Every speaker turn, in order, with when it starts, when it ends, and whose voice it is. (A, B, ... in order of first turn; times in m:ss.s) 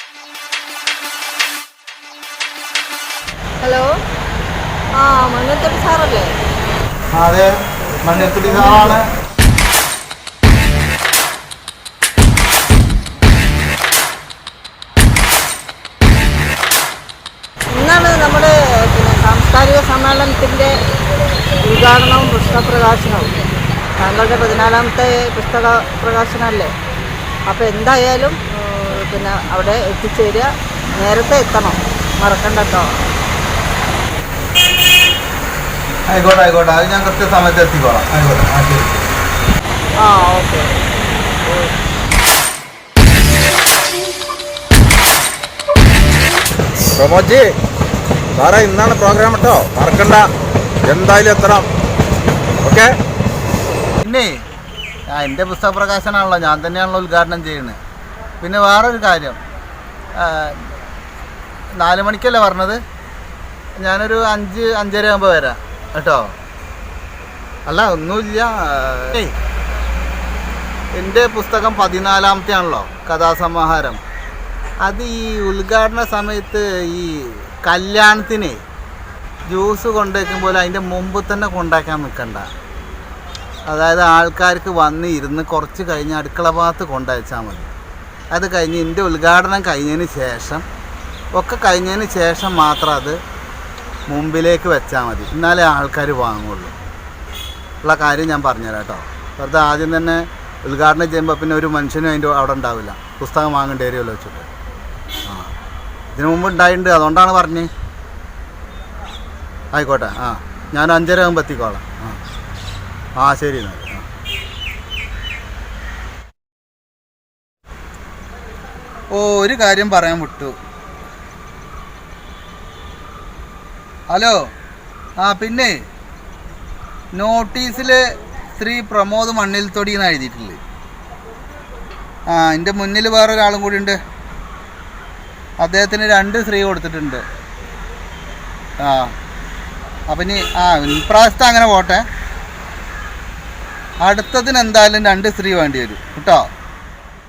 0:03.6-0:04.0 A
0:05.0-0:06.3 A
0:07.1-0:09.1 B
0:08.1-0:09.0 A
0:17.7-0:20.8 A
0:21.6-0:23.4 A
0:24.0-0:26.7 A
0:27.4-0:32.9 A
0:36.1-0:39.1 B
0:40.0-0:40.7 A
0:41.4-0:41.7 A
0:47.0-0:47.5 C
0:48.3-0:50.3 C
0:50.8-0:51.7 C
0:52.6-0:52.9 C
0:54.0-0:54.4 B
0:55.1-0:57.8 B
0:58.4-0:59.4 B
1:00.2-1:00.6 B
1:01.8-1:02.8 B
1:03.8-1:06.3 B
1:07.6-1:09.4 B
1:10.9-1:14.0 B
1:14.8-1:18.6 B
1:19.5-1:22.5 B
1:23.7-1:27.7 B
1:28.3-1:30.6 B
1:31.3-1:33.2 B
1:34.1-1:36.7 B
1:37.8-1:44.5 B
1:45.2-1:45.5 B
1:46.1-1:47.7 B
1:49.7-1:52.2 B
1:53.2-1:54.0 B
1:59.1-2:00.6 B
2:04.1-2:04.4 B
2:05.2-2:05.8 B
2:07.1-2:08.0 B
2:08.5-2:10.6 B
2:12.3-2:14.0 B
2:15.6-2:17.2 B
2:18.8-2:19.1 B
2:20.1-2:22.0 B
2:24.0-2:26.5 B